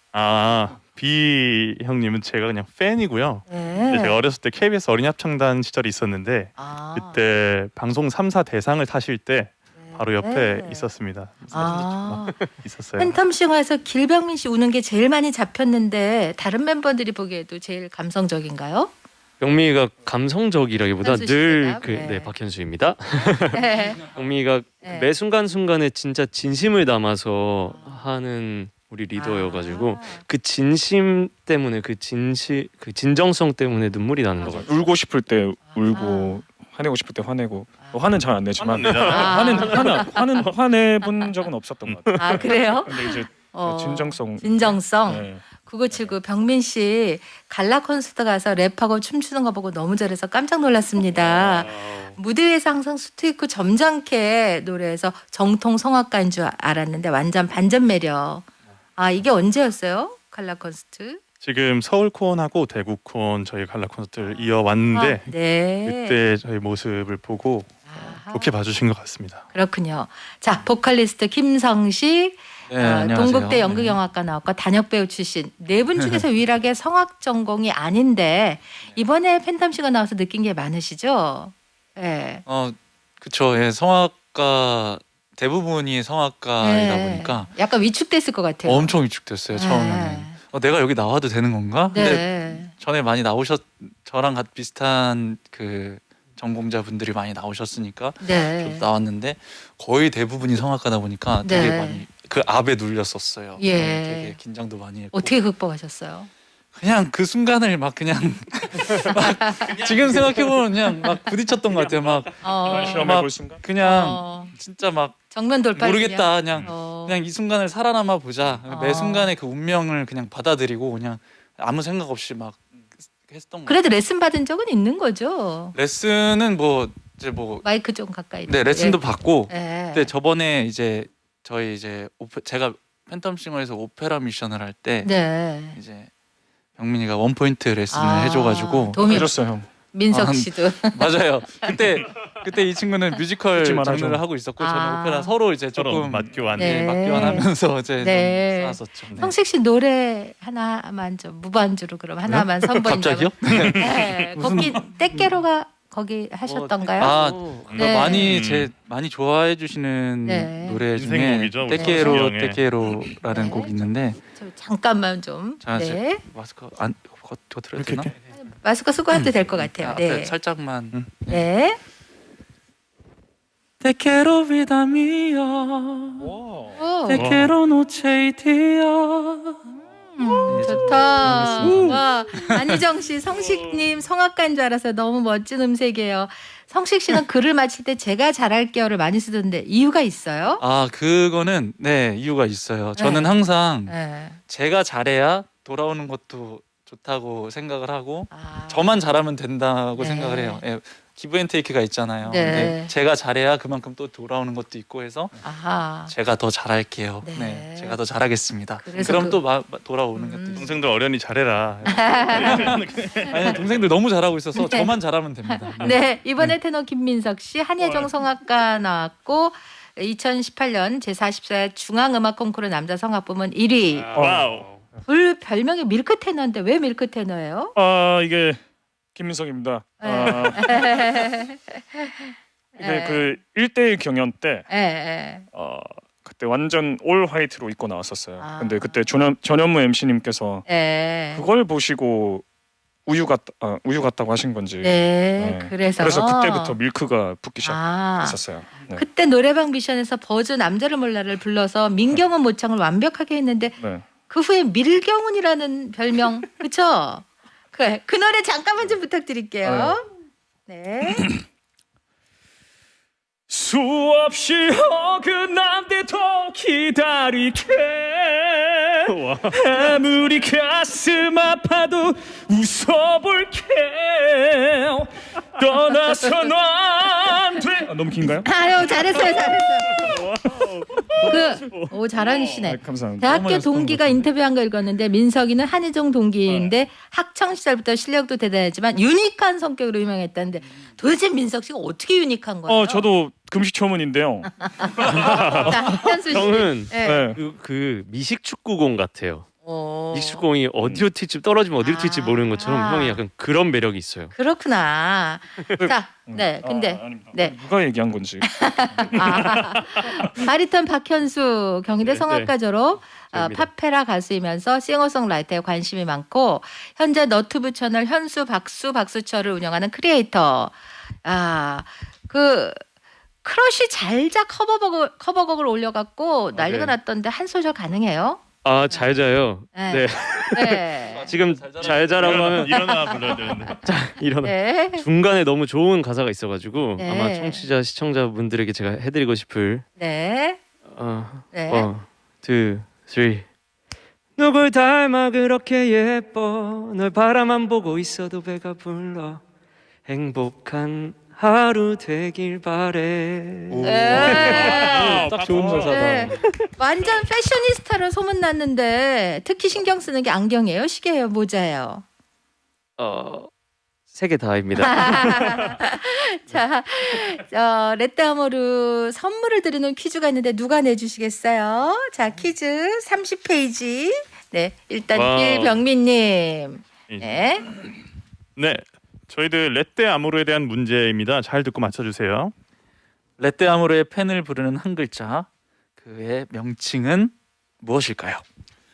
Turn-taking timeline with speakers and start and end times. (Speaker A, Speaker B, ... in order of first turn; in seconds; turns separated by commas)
Speaker A: 0.1-13.2, Speaker B: 3.5-4.2, Speaker B: 6.6-7.2, Speaker B: 9.8-10.9, Speaker B: 11.5-18.9, Speaker C: 19.4-34.7, Speaker B: 21.0-22.3, Speaker B: 23.5-24.0, Speaker B: 24.8-25.1, Speaker B: 27.7-28.0, Speaker B: 29.1-30.2, Speaker D: 34.4-46.1, Speaker B: 35.8-36.4, Speaker A: 38.6-40.1, Speaker B: 38.9-40.3, Speaker B: 41.0-41.3, Speaker C: 41.8-42.4, Speaker B: 42.1-61.2, Speaker C: 51.2-52.1, Speaker A: 61.4-69.4, Speaker B: 64.2-66.2, Speaker B: 67.9-68.5, Speaker B: 69.5-82.4, Speaker E: 72.7-74.0, Speaker E: 76.0-76.2, Speaker E: 82.5-87.5, Speaker B: 86.6-89.0, Speaker E: 88.6-105.4, Speaker B: 89.5-90.3, Speaker B: 91.9-92.7, Speaker B: 98.2-98.8, Speaker B: 101.4-102.0, Speaker B: 103.6-104.4, Speaker B: 105.1-106.3, Speaker E: 106.7-123.8, Speaker B: 108.9-109.8, Speaker B: 112.4-113.2, Speaker D: 112.6-113.6, Speaker B: 113.8-114.5, Speaker B: 115.3-117.2, Speaker B: 118.7-119.3, Speaker B: 123.7-125.8, Speaker E: 125.7-127.7, Speaker B: 127.6-130.1, Speaker E: 128.4-136.1, Speaker B: 135.0-135.8, Speaker E: 136.8-139.1, Speaker B: 137.9-139.3, Speaker D: 139.0-139.7, Speaker B: 139.9-141.8, Speaker E: 140.1-149.3, Speaker D: 143.5-144.2, Speaker B: 144.6-145.3, Speaker A: 145.8-147.4, Speaker B: 146.6-157.2, Speaker E: 152.2-154.9, Speaker A: 153.7-154.1, Speaker C: 156.4-158.0, Speaker E: 157.0-164.2, Speaker A: 157.7-158.7, Speaker B: 157.8-158.3, Speaker B: 160.2-160.8, Speaker A: 160.9-162.7, Speaker B: 161.7-162.2, Speaker B: 163.3-166.2, Speaker E: 165.6-168.2, Speaker A: 167.8-168.1, Speaker B: 168.3-170.3, Speaker E: 169.6-171.4, Speaker B: 171.3-171.8, Speaker E: 173.8-176.3, Speaker D: 176.2-176.8, Speaker B: 176.7-177.3, Speaker E: 177.0-179.6, Speaker A: 177.1-177.5, Speaker B: 180.1-190.6, Speaker E: 180.4-182.8, Speaker E: 190.6-205.4, Speaker B: 193.0-194.4, Speaker B: 198.3-198.9, Speaker B: 200.0-200.6, Speaker B: 202.2-202.9, Speaker B: 205.4-206.1, Speaker E: 206.0-210.8, Speaker B: 207.2-209.4, Speaker B: 210.1-210.7, Speaker A: 210.6-213.9, Speaker B: 211.9-213.6, Speaker E: 212.3-216.0, Speaker B: 214.6-224.2, Speaker A: 224.1-224.7, Speaker D: 224.2-224.7, Speaker B: 225.1-227.7, Speaker D: 227.7-228.6, Speaker D: 229.1-231.2, Speaker B: 230.0-233.4, Speaker D: 232.8-234.7, Speaker B: 234.7-235.5, Speaker D: 235.5-240.6, Speaker B: 238.4-239.1, Speaker B: 240.7-241.4, Speaker D: 241.3-242.4, Speaker D: 243.1-249.0, Speaker B: 244.8-246.8, Speaker B: 247.6-248.4, Speaker B: 248.9-260.1, Speaker D: 253.8-254.0, Speaker D: 259.6-260.0, Speaker B: 260.7-261.3, Speaker D: 263.5-278.5, Speaker C: 269.1-269.6, Speaker B: 278.4-280.1, Speaker C: 280.0-281.9, Speaker B: 281.2-293.1, Speaker D: 282.6-283.4, Speaker E: 283.3-284.2, Speaker D: 292.6-294.6, Speaker B: 294.6-297.3, Speaker C: 295.0-299.4, Speaker D: 297.0-297.4, Speaker B: 299.6-300.5, Speaker C: 300.1-304.3, Speaker D: 300.8-301.1, Speaker B: 301.8-303.2, Speaker B: 304.3-307.6, Speaker D: 305.8-309.6, Speaker B: 308.4-322.8, Speaker C: 312.0-312.5, Speaker C: 313.3-313.7, Speaker B: 323.4-329.1, Speaker C: 326.5-326.9, Speaker C: 328.6-339.8, Speaker B: 329.7-331.3, Speaker E: 330.9-332.7, Speaker A: 332.2-333.8, Speaker B: 332.7-333.2, Speaker B: 334.4-335.1, Speaker B: 337.0-337.7, Speaker B: 340.0-340.6, Speaker C: 340.9-343.4, Speaker B: 341.5-341.9, Speaker C: 344.4-349.4, Speaker C: 350.1-356.5, Speaker E: 353.7-354.1, Speaker B: 353.8-355.2, Speaker A: 354.2-356.2, Speaker D: 355.2-356.3, Speaker B: 355.8-362.0, Speaker C: 363.0-363.5, Speaker C: 364.1-365.8, Speaker B: 364.8-377.7, Speaker C: 375.1-375.8, Speaker A: 377.1-377.4, Speaker A: 378.6-382.5, Speaker E: 383.4-388.4